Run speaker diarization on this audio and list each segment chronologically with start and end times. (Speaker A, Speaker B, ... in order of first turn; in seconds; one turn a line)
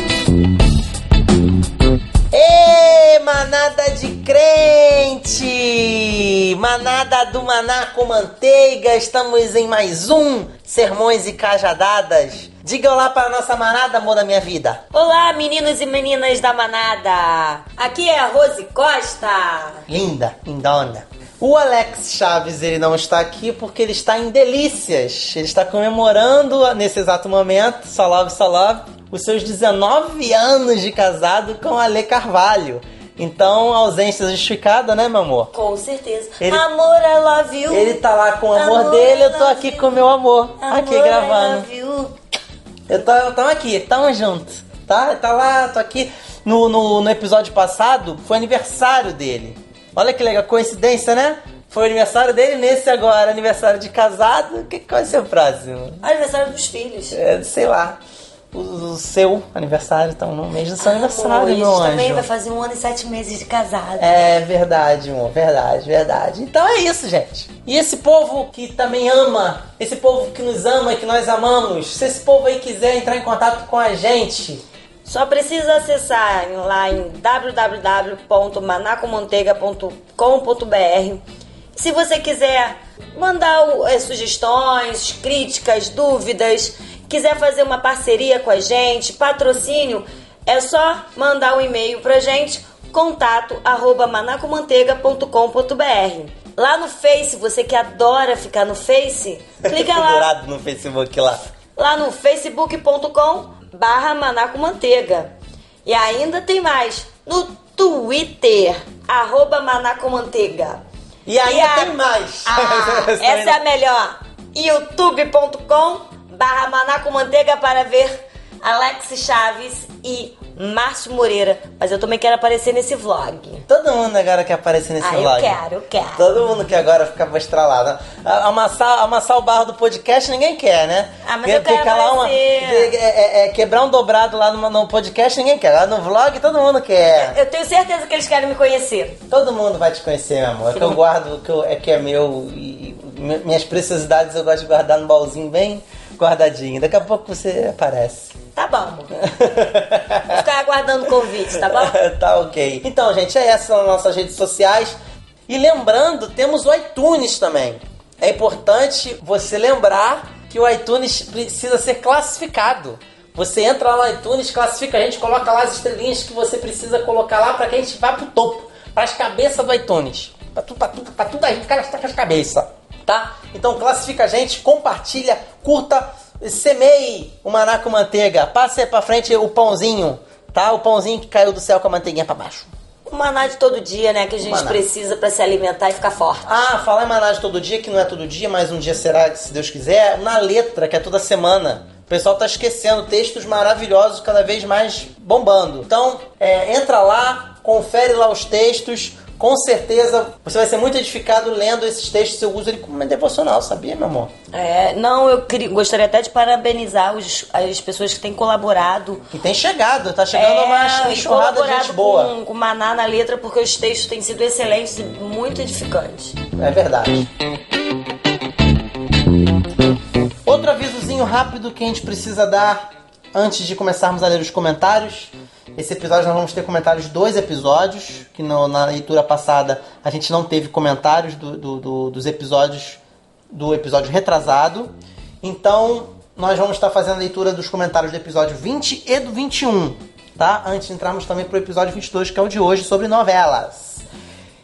Speaker A: 2.3-14.8
Speaker B: 14.9-19.8
Speaker A: 19.9-35.5
Speaker B: 35.5-38.0
Speaker A: 37.7-41.7
Speaker B: 38.5-40.0
Speaker B: 40.6-42.1
Speaker A: 42.9-56.0
Speaker B: 56.0-57.2
Speaker A: 57.1-58.0
Speaker A: 58.5-62.3
Speaker B: 60.8-64.1
Speaker A: 64.0-74.7
Speaker B: 75.0-81.2
Speaker B: 81.8-100.3
Speaker A: 99.7-101.5
Speaker B: 101.8-105.3
Speaker B: 105.8-110.8
Speaker A: 111.3-113.6
Speaker B: 111.4-123.6
Speaker A: 123.7-125.6
Speaker B: 125.0-126.3
Speaker A: 126.2-137.4
Speaker B: 131.2-132.9
Speaker B: 137.1-139.2
Speaker A: 139.3-148.4
Speaker B: 148.6-149.1
Speaker A: 149.2-150.4
Speaker B: 150.3-151.9
Speaker A: 151.6-155.0
Speaker A: 155.5-182.7
Speaker B: 183.1-186.5
Speaker A: 184.4-184.8
Speaker A: 186.4-204.3
Speaker B: 204.5-209.3
Speaker A: 209.3-212.3
Speaker B: 210.3-216.4
Speaker A: 216.6-217.3
Speaker A: 220.5-244.0